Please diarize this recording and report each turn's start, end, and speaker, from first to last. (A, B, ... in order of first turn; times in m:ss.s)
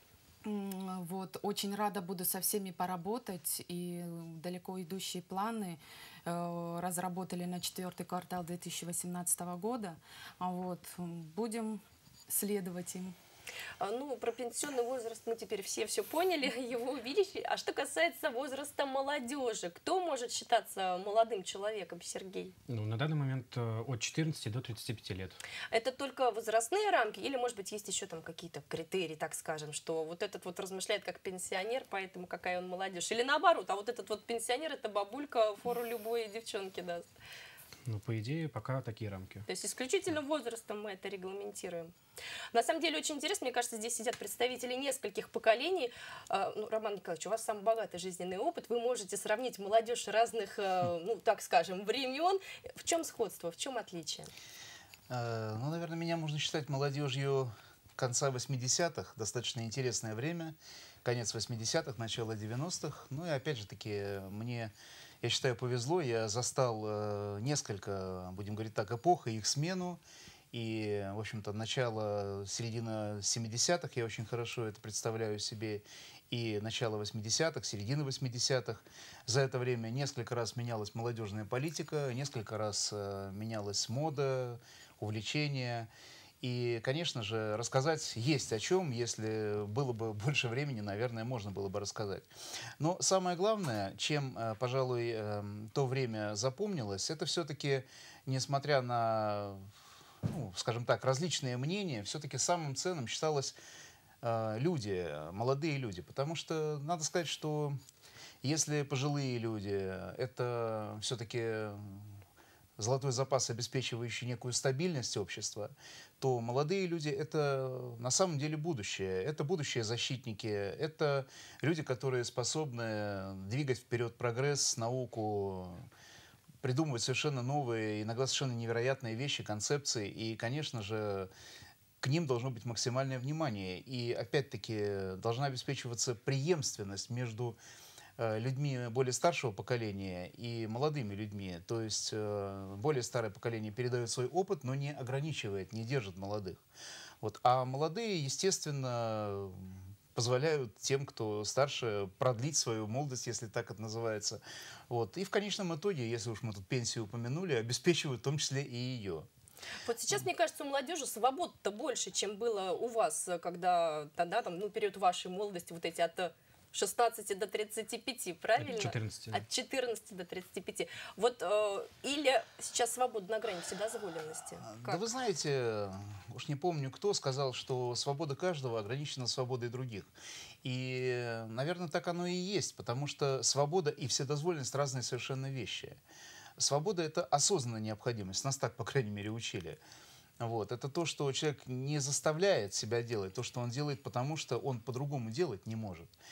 0:00.4-0:13.2 A
0:13.8-0:22.5 B
0:22.7-0:25.4 C
0:25.7-0:37.1 B
0:37.9-0:39.4 C
0:39.5-0:41.9 B
0:42.5-0:54.3 B
0:55.1-1:10.0 D
1:10.5-1:25.9 D
1:26.4-1:39.7 D
1:40.2-1:43.5 D
1:44.2-1:47.8 D
1:48.4-1:52.2 D
1:52.8-2:05.9 D
2:06.6-2:11.3 D
2:12.0-2:17.6 D
2:18.2-2:26.6 D
2:27.2-2:39.3 D
2:39.8-2:55.0 B
2:48.6-2:49.4 C
2:54.6-3:00.1 D
3:00.6-3:06.0 D
3:06.6-3:09.8 D
3:10.4-3:16.1 D